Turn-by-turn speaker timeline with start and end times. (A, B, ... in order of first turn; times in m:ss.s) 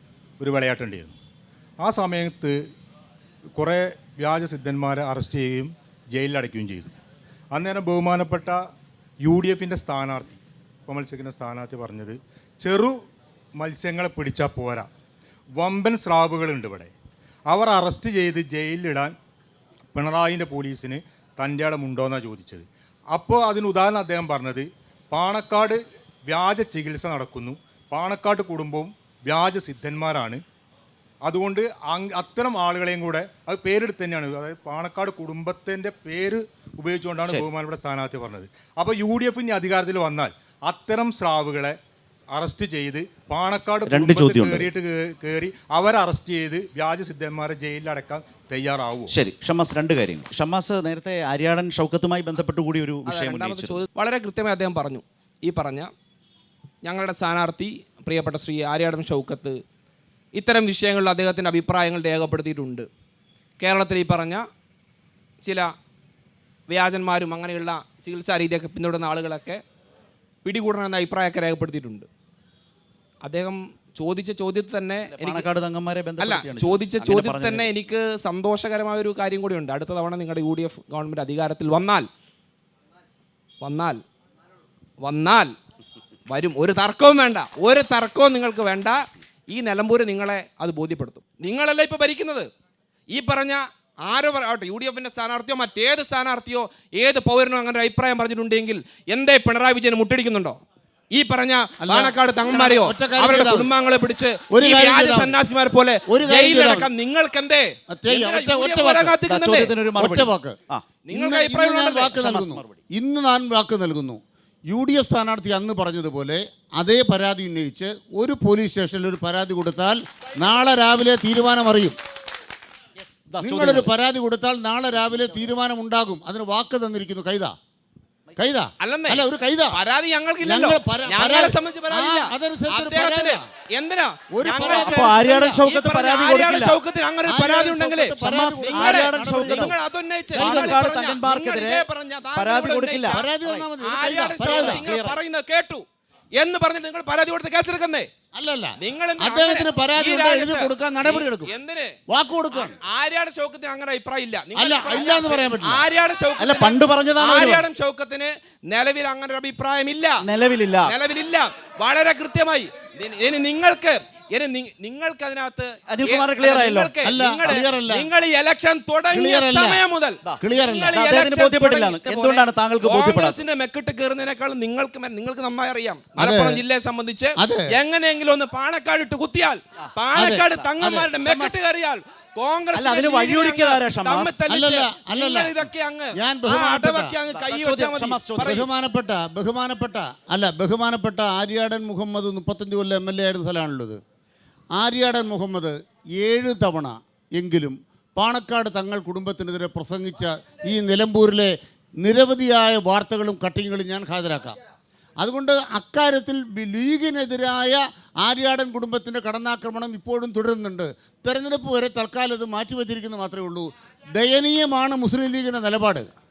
0:00.4-0:01.1 A
0:01.8-0:02.6 A
0:03.6-0:06.9 A
0:07.5-0:08.6 A
0:09.2-0:13.0 A
0:13.6-0:14.9 A
0:15.6-0:16.9 A
0:17.5-0:19.1 A
0:19.9-0:30.4 A
0:31.2-0:41.8 A
0:42.3-0:49.1 A
0:43.8-0:44.7 B
0:49.1-0:53.8 B
0:53.0-0:55.9 C
0:56.8-0:59.6 C
1:00.3-1:02.9 C
1:03.6-1:04.4 C
1:05.4-1:05.7 C
1:06.7-1:09.6 C
1:10.4-1:12.0 C
1:13.2-1:15.5 C
1:15.1-1:17.7 B
1:16.2-1:22.1 C
1:23.6-1:24.0 C
1:25.0-1:25.5 C
1:26.3-1:32.5 C
1:33.1-1:40.6 C
1:41.1-1:49.7 C
1:41.8-1:43.7 D
1:44.5-1:45.4 D
1:46.1-1:46.9 D
1:47.9-1:49.2 D
1:49.3-1:50.9 B
1:49.9-1:50.6 D
1:51.0-1:52.2 C
1:51.1-2:02.0 D
1:52.1-1:52.8 B
2:03.0-2:03.9 B
2:03.4-2:07.5 D
2:08.4-2:09.8 D
2:08.8-2:23.2 C
2:10.4-2:13.5 D
2:14.3-2:15.6 D
2:14.6-2:16.8 B
2:17.3-2:19.7 D
2:18.2-2:19.7 B
2:20.3-2:20.8 D
2:20.3-2:23.6 B
2:23.1-2:24.9 D
2:23.8-2:25.8 C
2:24.4-2:25.2 B
2:26.3-2:28.1 C
2:28.3-2:31.5 D
2:28.8-2:32.0 C
2:32.1-2:32.8 D
2:32.5-2:40.2 C
2:34.5-2:35.8 D
2:36.4-2:37.6 B
2:40.2-2:40.9 B
2:40.8-3:08.6 C
2:45.9-2:46.9 B
2:47.0-2:48.1 D
2:49.1-2:49.8 D
2:50.4-2:51.0 D
2:50.9-2:53.4 B
2:56.2-2:56.6 D
2:57.4-2:57.7 D
3:00.1-3:01.2 D
3:01.2-3:01.6 B
3:02.7-3:04.4 B
3:04.5-3:05.5 D
3:06.2-3:07.2 D
3:07.3-3:08.7 B
3:08.4-3:14.0 D
3:14.8-3:24.6 D
3:25.2-3:36.1 D